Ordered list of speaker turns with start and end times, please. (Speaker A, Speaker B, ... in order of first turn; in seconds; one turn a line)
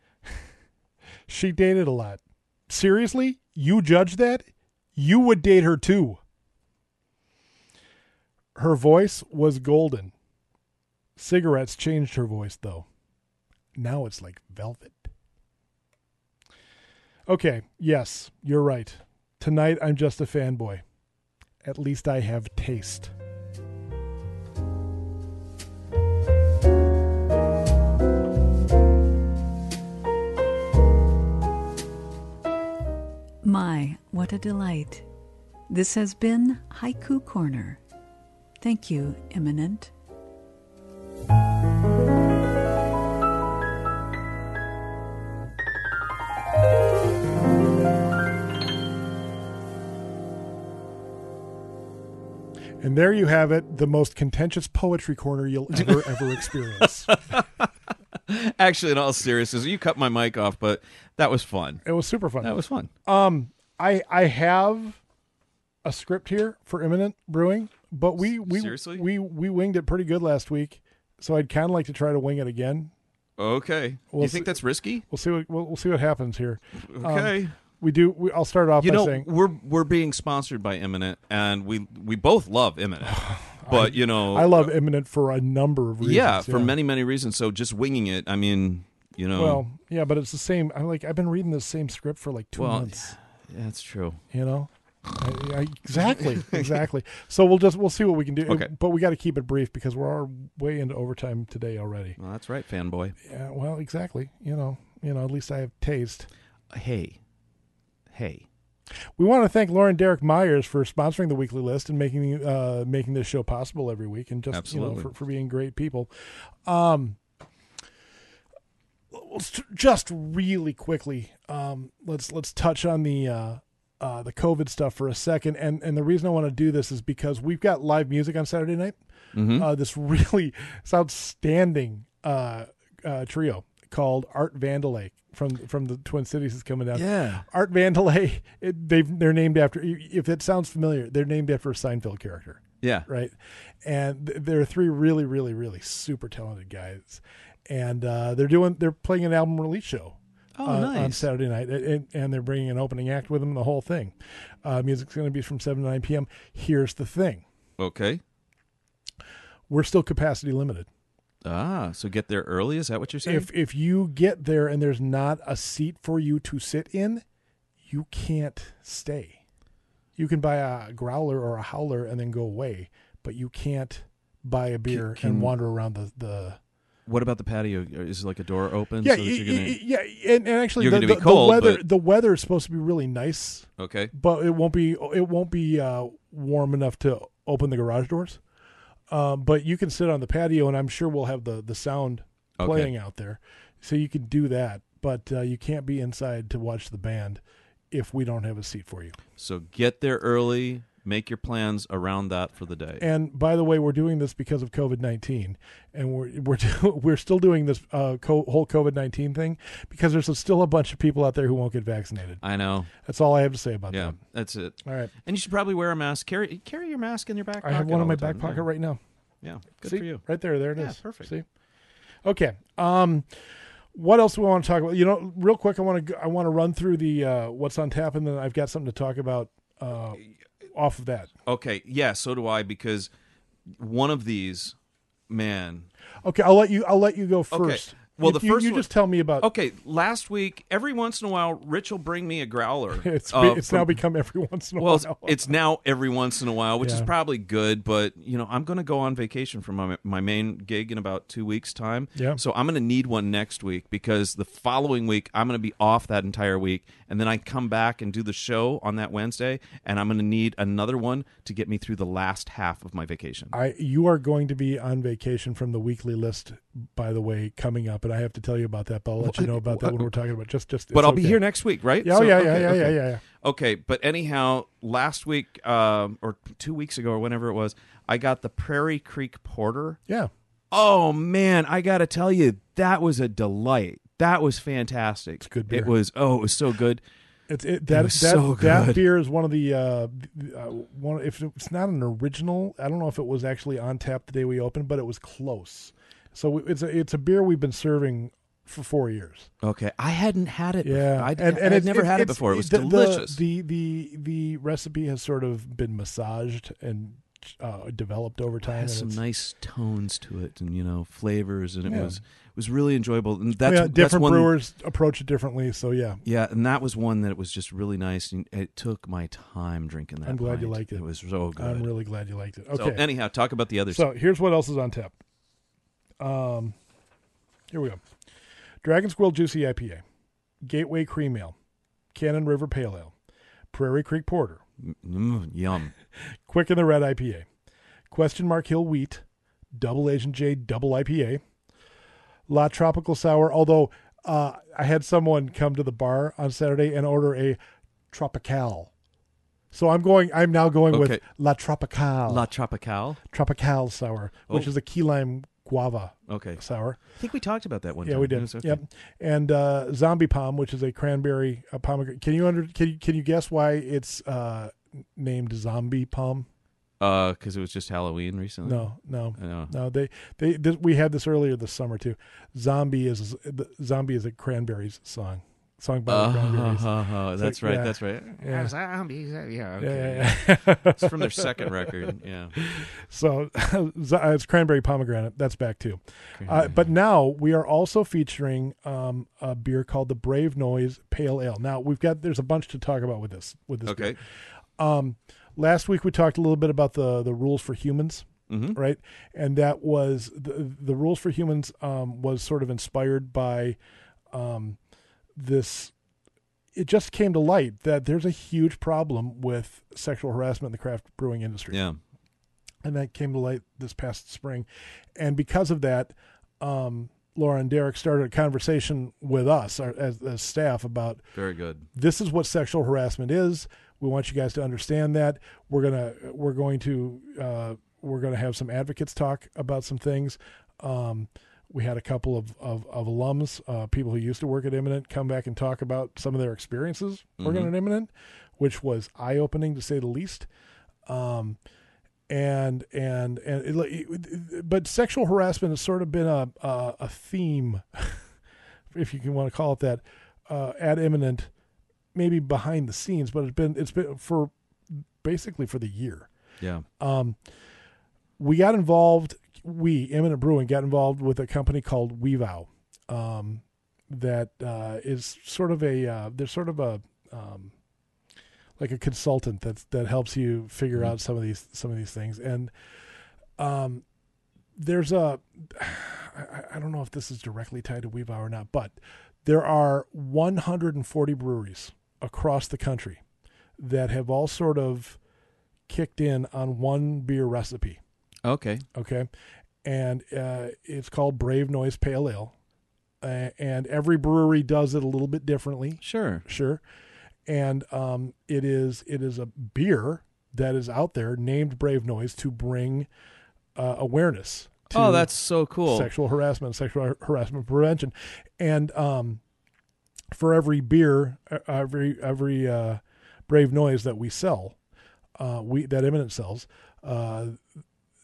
Speaker A: 1.3-6.2
Speaker A: 8.6-10.1
Speaker A: 11.2-12.9
Speaker A: 13.8-15.1
Speaker A: 17.3-20.8
Speaker A: 21.6-23.1
Speaker B: 33.4-35.1
Speaker B: 35.7-37.8
Speaker B: 38.6-39.9
Speaker A: 52.8-57.2
Speaker C: 55.7-61.8
Speaker A: 61.8-65.0
Speaker C: 62.4-62.9
Speaker A: 65.8-72.9
Speaker C: 68.4-69.1
Speaker C: 73.4-75.0
Speaker A: 74.1-79.3
Speaker C: 76.8-77.6
Speaker C: 78.8-84.7
Speaker A: 83.1-86.7
Speaker C: 86.0-89.6
Speaker A: 89.3-93.2
Speaker C: 92.6-94.2
Speaker A: 94.3-102.2
Speaker C: 96.3-96.8
Speaker C: 102.2-103.2
Speaker A: 103.3-106.3
Speaker C: 106.7-107.2
Speaker C: 108.1-108.5
Speaker A: 109.2-116.1
Speaker C: 114.5-115.1
Speaker A: 116.7-117.2
Speaker A: 119.1-129.0
Speaker C: 129.3-129.7
Speaker A: 129.6-157.4
Speaker C: 136.9-137.4
Speaker C: 142.8-143.1
Speaker C: 150.6-151.3
Speaker C: 157.8-158.2
Speaker A: 159.7-160.9
Speaker C: 161.4-163.5
Speaker A: 163.3-167.2
Speaker A: 167.9-169.4
Speaker A: 170.2-176.6
Speaker C: 174.9-175.5
Speaker C: 177.1-179.8
Speaker A: 179.0-188.4
Speaker C: 180.8-181.8
Speaker C: 183.8-184.1
Speaker A: 189.1-199.2
Speaker C: 192.6-192.9
Speaker C: 199.4-203.0
Speaker A: 203.0-214.2
Speaker C: 212.4-212.9
Speaker C: 213.9-218.7
Speaker A: 214.8-215.1
Speaker A: 217.6-219.0
Speaker C: 219.4-221.3
Speaker A: 219.8-221.4
Speaker A: 222.2-223.3
Speaker A: 223.9-231.3
Speaker C: 231.5-233.1
Speaker C: 233.7-234.8
Speaker C: 235.3-235.9
Speaker A: 236.2-239.5
Speaker C: 237.5-244.0
Speaker A: 243.0-245.5
Speaker C: 244.8-263.5
Speaker A: 246.8-247.1
Speaker A: 252.2-252.4
Speaker A: 263.5-271.4
Speaker C: 269.2-270.1
Speaker C: 270.9-280.0
Speaker A: 272.0-273.2
Speaker C: 280.7-287.0
Speaker A: 285.4-285.9
Speaker A: 287.5-299.5
Speaker C: 287.9-289.0
Speaker C: 299.6-303.4
Speaker A: 300.8-309.2
Speaker C: 308.7-314.6
Speaker A: 311.9-312.2
Speaker A: 313.6-316.2
Speaker C: 316.2-321.9
Speaker A: 320.3-321.0
Speaker A: 321.6-323.1
Speaker C: 322.7-324.1
Speaker A: 323.9-325.1
Speaker A: 326.2-326.8
Speaker A: 327.7-328.0
Speaker A: 328.8-330.0
Speaker A: 330.6-331.6
Speaker A: 332.1-333.1
Speaker A: 333.7-334.6
Speaker C: 334.8-335.9
Speaker A: 336.5-337.5
Speaker A: 338.1-339.2
Speaker A: 339.8-341.4
Speaker A: 342.5-347.6
Speaker A: 348.1-348.9
Speaker A: 349.7-352.5
Speaker C: 350.9-351.2
Speaker C: 352.3-353.2
Speaker A: 353.3-357.0
Speaker C: 356.3-358.8
Speaker A: 358.1-366.5
Speaker C: 367.0-369.7
Speaker A: 368.6-378.7
Speaker C: 376.1-382.6
Speaker A: 379.8-381.7
Speaker A: 382.6-394.2
Speaker C: 386.4-386.8
Speaker C: 393.9-394.2
Speaker A: 394.8-403.8
Speaker C: 398.5-398.8
Speaker A: 404.3-404.8
Speaker A: 405.4-405.9
Speaker A: 406.8-411.8
Speaker C: 411.7-412.0
Speaker A: 412.8-421.2
Speaker C: 421.3-421.9
Speaker A: 421.9-440.5
Speaker C: 437.4-437.7
Speaker A: 441.1-441.6
Speaker A: 442.3-448.2
Speaker A: 448.9-451.5
Speaker A: 452.1-456.3
Speaker C: 456.6-456.9
Speaker A: 457.0-457.4
Speaker A: 458.4-467.7
Speaker A: 468.8-472.7
Speaker A: 473.6-474.0
Speaker A: 474.8-483.2
Speaker A: 483.8-485.2
Speaker A: 485.9-488.0
Speaker C: 488.4-488.9
Speaker A: 488.9-489.3
Speaker A: 489.8-492.5
Speaker A: 493.2-496.8
Speaker C: 496.0-496.4
Speaker A: 497.5-503.1
Speaker A: 503.8-509.4
Speaker C: 504.9-506.1
Speaker A: 510.3-514.8
Speaker A: 515.4-517.6